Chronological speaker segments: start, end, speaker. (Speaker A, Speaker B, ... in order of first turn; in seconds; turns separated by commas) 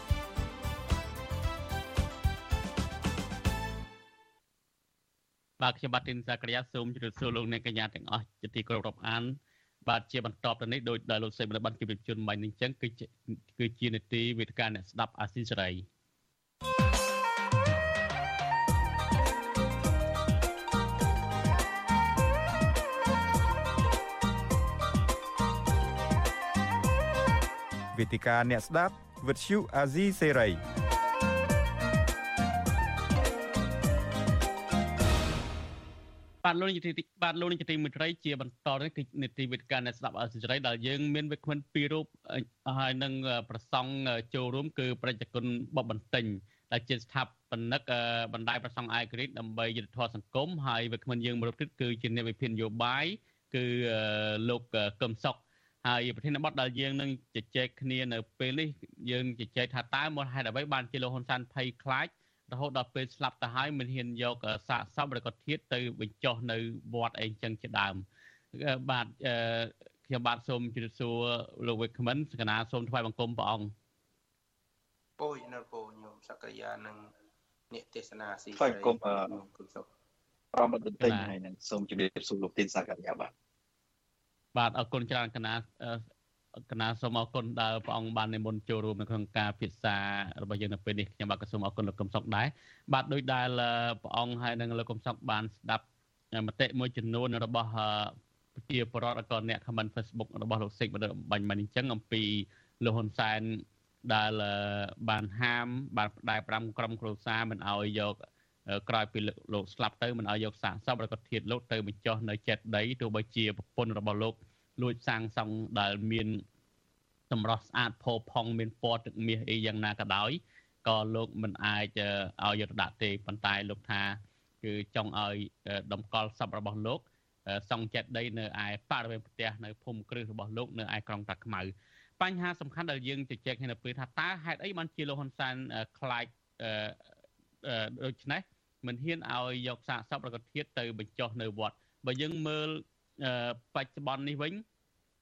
Speaker A: 5.6-15.8, Speaker B: 27.9-30.6, Speaker A: 36.4-68.0, Speaker A: 68.5-73.7, Speaker C: 75.2-77.1, Speaker C: 77.7-79.8, Speaker D: 78.5-79.4, Speaker D: 80.5-83.3, Speaker A: 81.0-81.3, Speaker A: 84.5-86.0, Speaker A: 86.7-108.2, Speaker A: 108.7-116.4, Speaker A: 117.3-137.0, Speaker A: 137.6-144.6